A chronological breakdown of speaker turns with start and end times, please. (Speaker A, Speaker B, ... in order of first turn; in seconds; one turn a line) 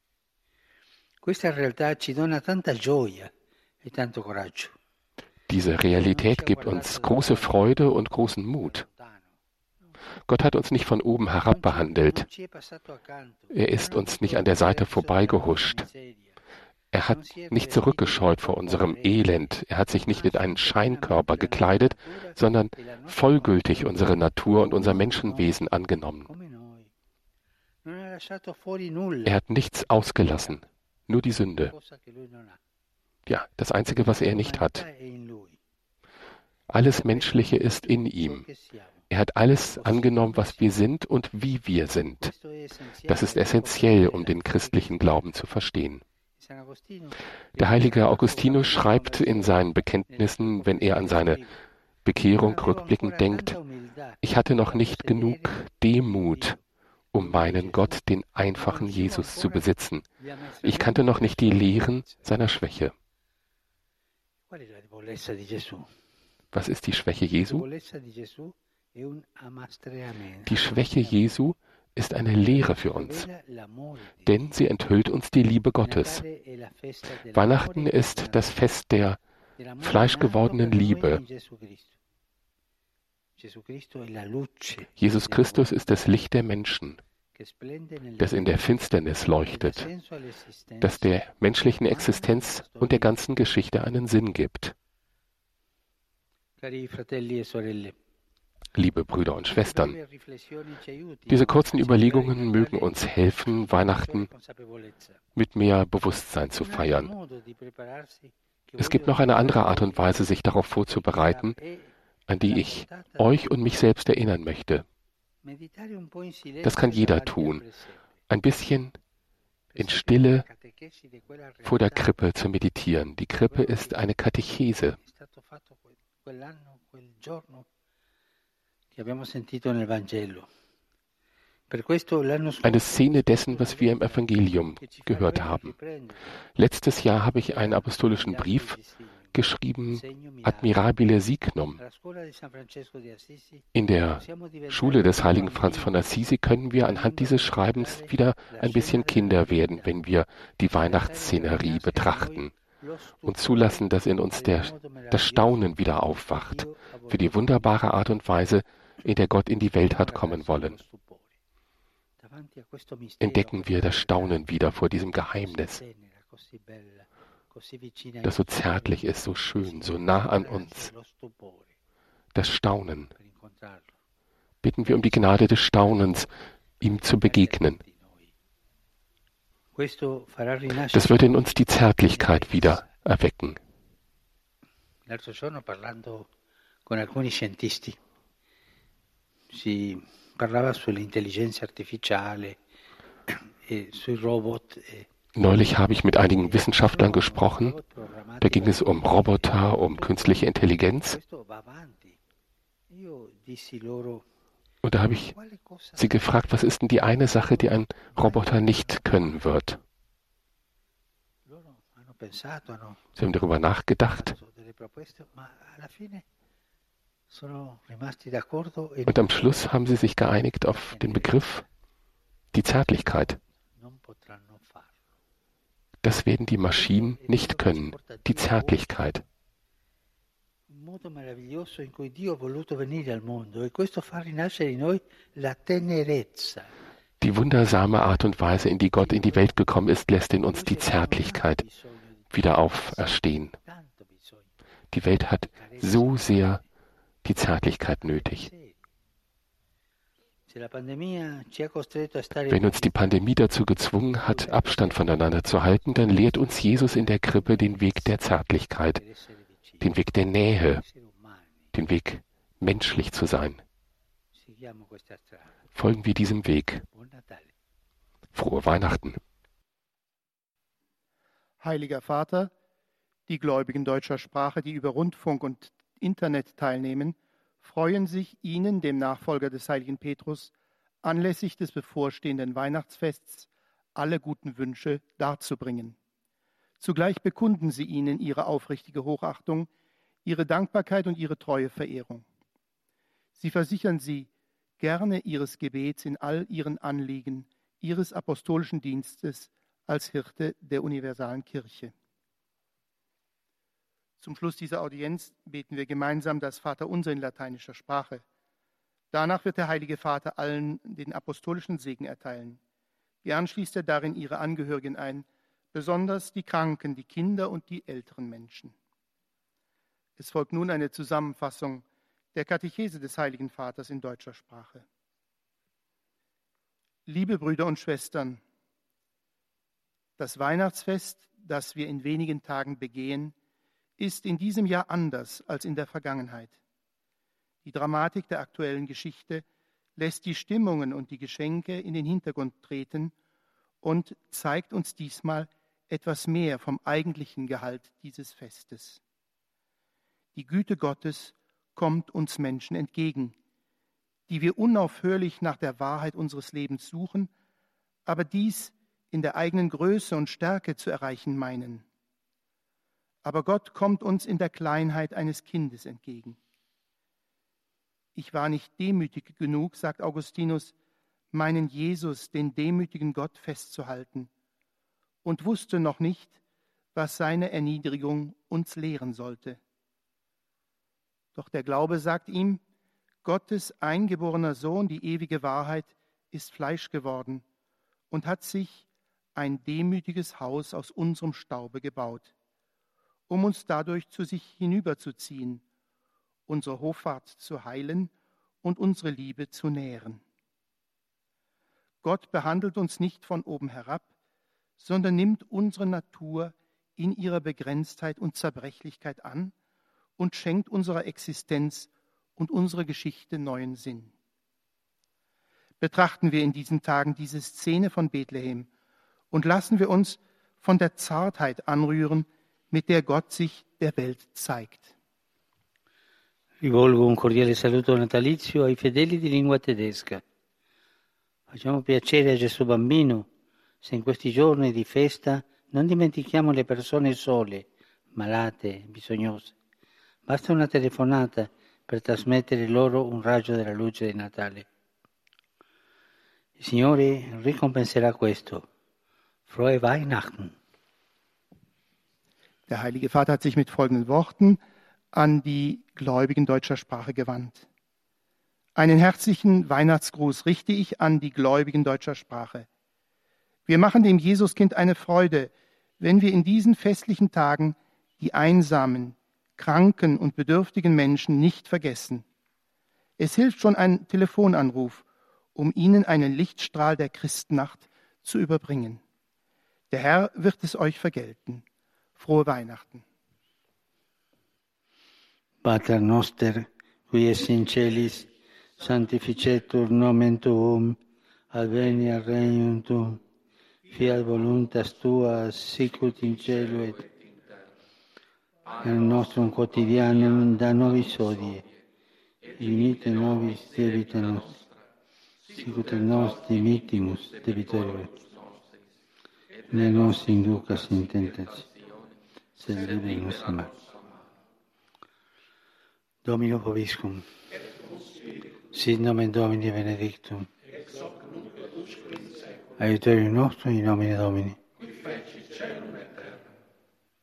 Speaker A: 1.2-3.3
Speaker A: 3.8-4.7
Speaker B: 5.5-8.8
Speaker A: 5.9-9.3
Speaker B: 10.3-12.2
Speaker A: 11.4-16.4
Speaker B: 13.5-15.8
Speaker B: 16.9-26.3
Speaker A: 17.1-26.9
Speaker A: 27.8-29.4
Speaker B: 29.2-31.7
Speaker A: 29.9-30.6
Speaker A: 31.5-32.6
Speaker B: 33.3-34.8
Speaker A: 34.0-35.6
Speaker B: 36.7-38.5
Speaker A: 36.8-39.0
Speaker B: 39.1-42.3
Speaker A: 39.7-40.8
Speaker A: 42.1-45.2
Speaker B: 43.1-46.0
Speaker A: 46.4-51.6
Speaker B: 47.6-51.4
Speaker B: 52.0-53.5
Speaker A: 52.3-55.6
Speaker B: 54.2-56.6
Speaker A: 56.2-56.6
Speaker B: 57.1-60.0
Speaker A: 57.1-58.0
Speaker A: 58.5-62.3
Speaker B: 60.6-62.9
Speaker A: 64.5-65.9
Speaker B: 66.5-67.6
Speaker A: 67.4-71.4
Speaker B: 70.5-73.2
Speaker A: 72.4-74.5
Speaker B: 74.2-76.2
Speaker A: 75.8-78.7
Speaker B: 77.3-79.2
Speaker A: 79.6-81.9
Speaker B: 79.8-81.2
Speaker A: 83.4-86.1
Speaker B: 85.0-87.0
Speaker A: 87.3-88.7
Speaker B: 88.2-89.9
Speaker A: 89.4-93.3
Speaker B: 90.8-94.7
Speaker A: 96.6-98.0
Speaker B: 98.8-100.0
Speaker A: 99.5-105.2
Speaker B: 101.3-104.3
Speaker B: 105.3-107.1
Speaker A: 106.5-110.3
Speaker B: 108.8-111.5
Speaker A: 110.9-113.5
Speaker B: 112.3-114.8
Speaker A: 115.4-118.0
Speaker B: 116.6-117.6
Speaker B: 118.3-119.0
Speaker A: 119.7-122.2
Speaker B: 119.8-120.4
Speaker B: 121.7-125.0
Speaker A: 123.4-124.0
Speaker A: 125.0-127.7
Speaker A: 128.9-130.5
Speaker A: 131.7-136.3
Speaker B: 132.6-135.7
Speaker B: 136.6-138.8
Speaker A: 137.4-139.3
Speaker B: 139.3-141.8
Speaker A: 139.9-140.9
Speaker A: 141.8-143.7
Speaker B: 143.7-152.5
Speaker A: 144.2-146.1
Speaker A: 146.8-150.0
Speaker A: 150.8-157.9
Speaker B: 153.2-160.8
Speaker A: 159.8-161.3
Speaker A: 162.2-164.5
Speaker B: 163.2-165.8
Speaker A: 165.2-171.7
Speaker B: 168.2-170.9
Speaker B: 172.3-173.1
Speaker A: 173.1-173.9
Speaker B: 174.6-176.3
Speaker B: 176.8-177.8
Speaker A: 176.8-178.3
Speaker A: 179.7-182.9
Speaker B: 180.9-183.6
Speaker A: 185.1-186.3
Speaker A: 186.8-188.0
Speaker A: 189.5-192.6
Speaker A: 193.3-195.1
Speaker B: 195.3-197.8
Speaker A: 196.2-202.2
Speaker B: 198.4-201.2
Speaker A: 202.9-204.2
Speaker B: 204.8-205.3
Speaker A: 205.1-209.3
Speaker B: 206.0-209.8
Speaker A: 211.4-213.0
Speaker B: 213.2-214.3
Speaker A: 214.1-216.2
Speaker A: 217.3-219.7
Speaker B: 219.1-221.6
Speaker A: 220.7-221.6
Speaker B: 222.5-223.4
Speaker A: 222.8-224.9
Speaker B: 226.0-229.2
Speaker A: 226.7-228.9
Speaker A: 230.7-236.7
Speaker B: 237.2-241.6
Speaker A: 238.7-239.6
Speaker A: 240.3-244.5
Speaker B: 242.3-243.5
Speaker B: 244.9-246.6
Speaker A: 245.5-246.6
Speaker B: 247.2-248.5
Speaker A: 248.0-248.8
Speaker A: 250.5-253.3
Speaker B: 252.5-259.0
Speaker A: 254.0-258.2
Speaker A: 258.9-259.9
Speaker B: 259.8-260.8
Speaker A: 260.7-261.6
Speaker B: 261.7-263.6
Speaker A: 264.3-265.5
Speaker B: 265.7-266.8
Speaker A: 266.9-267.5
Speaker B: 268.3-269.2
Speaker C: 271.6-272.5
Speaker C: 273.3-286.0
Speaker C: 286.8-289.7
Speaker C: 290.2-292.2
Speaker C: 293.4-301.9
Speaker C: 304.2-308.2
Speaker C: 309.1-312.6
Speaker C: 313.2-318.7
Speaker C: 320.2-324.8
Speaker C: 327.1-328.4
Speaker C: 330.2-333.3
Speaker C: 334.0-336.6
Speaker C: 337.6-339.4
Speaker C: 340.0-343.1
Speaker C: 343.8-349.0
Speaker C: 350.3-353.4
Speaker C: 354.3-357.3
Speaker C: 358.1-361.8
Speaker C: 363.2-366.4
Speaker C: 368.1-370.7
Speaker C: 371.3-374.3
Speaker C: 375.2-376.4
Speaker C: 376.9-379.6
Speaker C: 381.3-382.6
Speaker C: 383.2-387.4
Speaker C: 388.1-392.3
Speaker C: 393.3-395.6
Speaker C: 396.5-398.1
Speaker C: 398.6-400.2
Speaker C: 402.0-404.1
Speaker C: 404.8-409.5
Speaker C: 410.2-414.1
Speaker C: 415.8-418.7
Speaker C: 419.3-424.9
Speaker A: 426.6-430.2
Speaker A: 431.5-433.3
Speaker A: 433.8-439.5
Speaker A: 440.3-444.6
Speaker A: 446.6-448.6
Speaker A: 449.5-450.6
Speaker C: 452.7-454.6
Speaker C: 455.1-457.6
Speaker C: 458.8-462.7
Speaker C: 463.7-472.2
Speaker C: 473.2-479.0
Speaker C: 479.9-481.6
Speaker C: 482.2-483.0
Speaker A: 485.6-491.0
Speaker A: 491.5-493.2
Speaker A: 493.9-497.1
Speaker A: 498.8-501.6
Speaker A: 502.5-504.6
Speaker A: 505.5-508.2
Speaker A: 509.7-511.7
Speaker A: 512.6-513.7
Speaker A: 516.2-517.3
Speaker A: 518.7-520.5
Speaker A: 522.8-524.6